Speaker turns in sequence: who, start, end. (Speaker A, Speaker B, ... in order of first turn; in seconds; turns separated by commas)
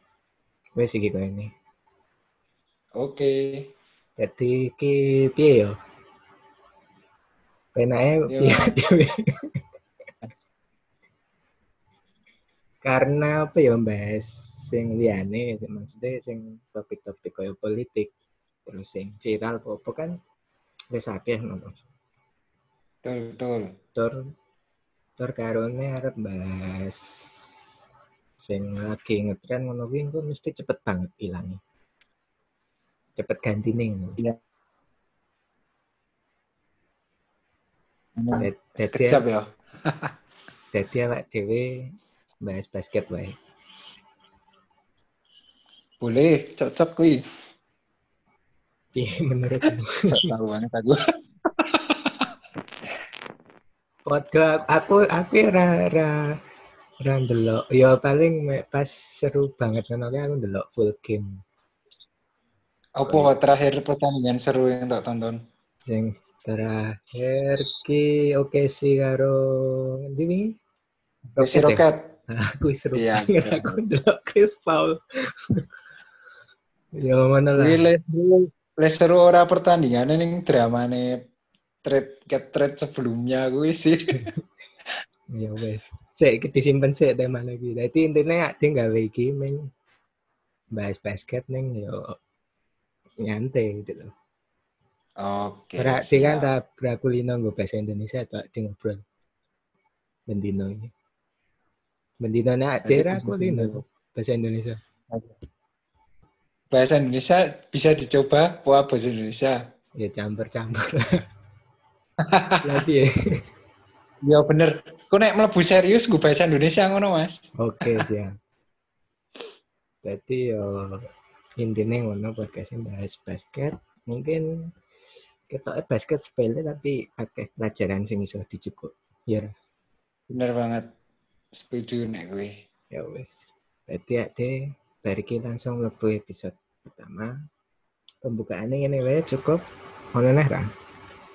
Speaker A: 0.8-1.5, Speaker B: 3.0-3.5, Speaker A: 4.2-5.7, Speaker A: 7.8-9.2, Speaker B: 8.3-8.7, Speaker A: 12.8-18.1, Speaker A: 18.6-20.1, Speaker A: 20.9-21.8, Speaker B: 23.0-23.7, Speaker A: 23.9-24.2, Speaker A: 25.2-27.5, Speaker A: 28.4-31.6, Speaker A: 33.2-34.2, Speaker B: 38.2-40.1, Speaker A: 38.3-39.2, Speaker A: 40.7-41.9, Speaker A: 42.4-43.4, Speaker B: 46.0-47.2, Speaker A: 48.9-50.0, Speaker B: 50.1-51.0, Speaker B: 51.6-52.2, Speaker A: 54.0-56.4, Speaker A: 57.0-61.4, Speaker B: 63.0-65.4, Speaker A: 63.0-63.3, Speaker A: 65.8-70.5, Speaker A: 71.3-75.0, Speaker B: 71.4-72.1, Speaker B: 72.9-73.8, Speaker A: 77.0-77.9, Speaker B: 77.6-81.2, Speaker B: 81.8-84.2, Speaker A: 85.3-89.6, Speaker A: 90.8-92.1, Speaker A: 93.2-94.1, Speaker B: 95.2-96.5, Speaker A: 95.8-99.0, Speaker A: 100.3-100.9, Speaker A: 102.2-104.8, Speaker B: 102.8-103.8, Speaker B: 106.7-109.6, Speaker A: 110.0-110.9, Speaker B: 112.3-112.6, Speaker A: 112.6-113.1, Speaker B: 114.2-118.0, Speaker A: 117.6-118.3, Speaker A: 120.0-121.0, Speaker A: 121.6-124.5, Speaker A: 125.5-129.5, Speaker B: 130.3-130.9, Speaker B: 131.6-132.5, Speaker A: 132.9-137.3, Speaker A: 138.2-139.6, Speaker A: 140.1-140.7